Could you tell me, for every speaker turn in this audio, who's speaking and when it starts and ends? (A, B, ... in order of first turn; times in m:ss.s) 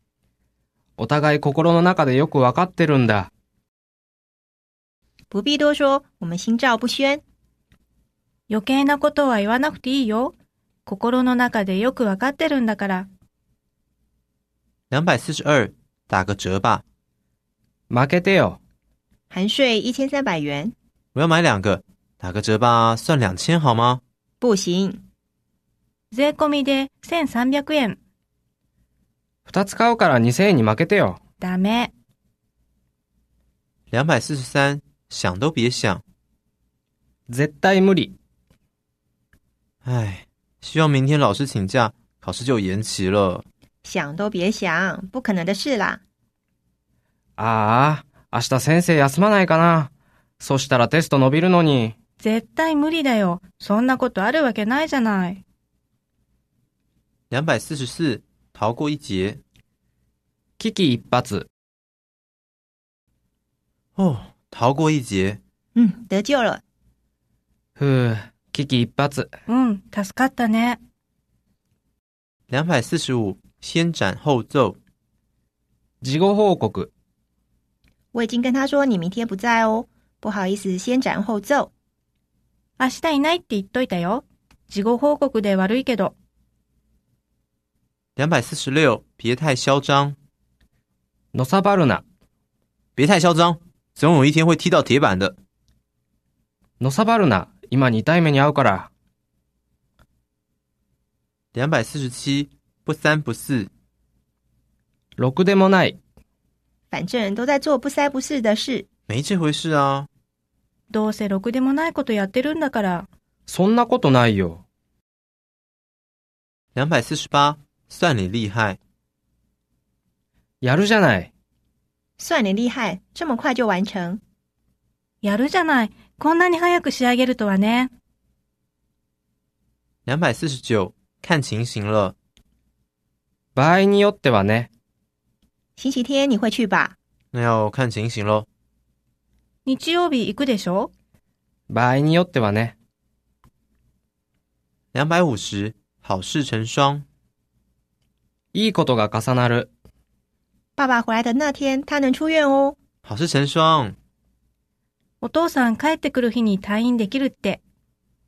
0:01.0-0:03.3 A
0:05.3-0:07.2 B
0:08.5-0:10.3 C
0:10.8-0:13.1 C
0:14.9-0:16.8 D
0:17.9-0:18.6 A
0:19.3-0:20.7 B
0:21.1-0:24.0 D
0:24.4-0:25.0 B
0:26.1-0:28.0 C
0:29.5-0:31.2 A
0:31.4-0:31.9 C
0:33.9-0:36.0 D
0:37.3-0:38.1 A
0:39.8-0:43.4 D
0:43.8-0:46.0 B
0:47.4-0:51.9 A
0:52.2-0:55.4 C
0:57.3-0:59.4 D
1:00.6-1:01.5 A
1:04.0-1:05.4 D
1:05.7-1:06.6 B
1:07.8-1:09.3 A
1:09.5-1:10.8 C
1:12.5-1:14.8 D
1:16.0-1:16.9 A
1:18.1-1:21.7 B
1:22.8-1:26.1 C
1:28.2-1:30.2 D
1:31.3-1:32.0 A
1:33.0-1:35.4 D
1:36.8-1:38.9 A
1:41.5-1:43.7 D
1:45.2-1:46.0 A
1:46.9-1:48.9 B
1:49.1-1:50.1 D
1:50.9-1:53.1 C
1:53.5-1:54.6 A
1:56.7-1:58.8 D
2:00.6-2:01.3 A
2:02.2-2:04.2 B
2:05.2-2:07.9 C
2:10.0-2:12.2 D
2:13.5-2:14.7 A
2:15.8-2:17.0 B
2:17.3-2:18.5 D
2:19.6-2:20.9 C
2:21.7-2:22.7 A
2:24.9-2:27.0 D
2:28.5-2:29.7 A
2:30.8-2:32.8 B
2:33.0-2:34.0 D
2:35.2-2:37.6 C